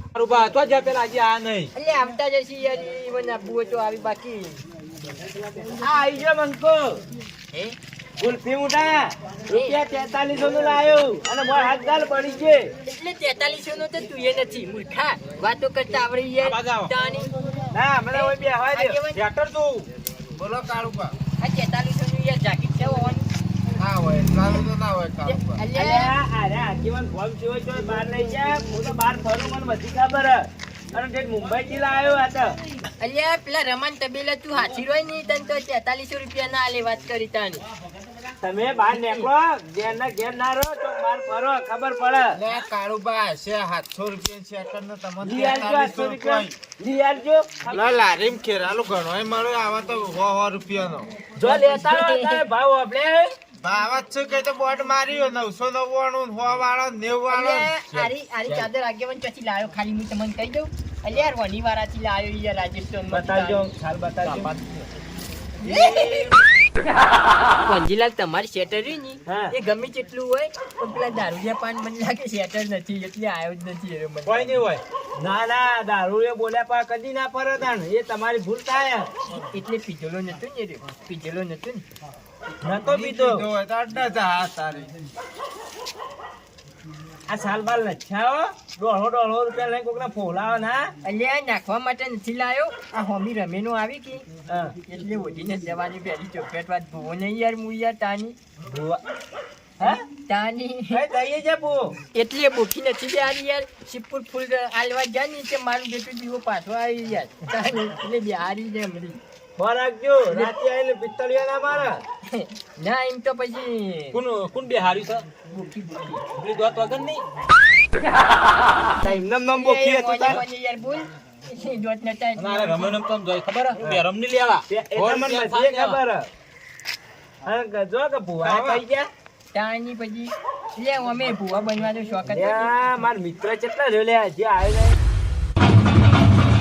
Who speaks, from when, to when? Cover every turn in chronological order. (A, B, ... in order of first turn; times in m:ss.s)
0:00.2-0:01.7 A
0:01.7-0:04.6 B
0:05.7-0:07.0 C
0:08.2-0:12.7 C
0:09.5-0:09.8 B
0:12.8-0:17.3 B
0:16.4-0:16.9 A
0:17.7-0:19.0 C
0:18.1-0:19.2 B
0:19.1-0:19.9 A
0:20.3-0:21.2 D
0:21.4-0:23.3 B
0:23.8-0:25.6 D
0:25.2-0:26.1 B
0:25.7-0:32.6 C
0:33.0-0:37.6 B
0:38.4-0:42.4 C
0:38.9-0:39.3 B
0:42.3-0:46.5 D
0:45.2-0:47.8 C
0:47.7-0:51.2 D
0:51.4-0:53.3 C
0:51.4-0:52.4 B
0:53.6-0:58.1 D
0:57.3-1:03.7 B
1:03.1-1:04.5 C
1:04.2-1:04.8 A
1:05.6-1:06.4 B
1:05.8-1:06.2 C
1:07.6-1:14.6 B
1:09.3-1:09.5 C
1:14.2-1:14.8 A
1:15.2-1:19.1 C
1:19.3-1:21.8 B
1:22.6-1:23.4 C
1:22.8-1:25.0 D
1:27.3-1:30.9 C
1:31.0-1:34.2 B
1:34.5-1:34.8 C
1:34.8-1:38.4 B
1:38.7-1:39.0 C
1:39.8-1:41.0 B
1:40.9-1:41.9 C
1:42.1-1:49.2 B
1:49.6-1:52.0 C
1:52.3-1:54.2 B
1:54.1-1:55.3 A
1:55.5-1:56.2 B
1:56.4-1:57.2 A
1:59.0-2:00.4 C
1:59.0-2:03.0 B
2:02.4-2:06.0 A
2:04.7-2:06.3 C
2:07.4-2:09.1 C
2:08.4-2:08.8 A
2:09.5-2:12.7 B
2:12.3-2:15.0 C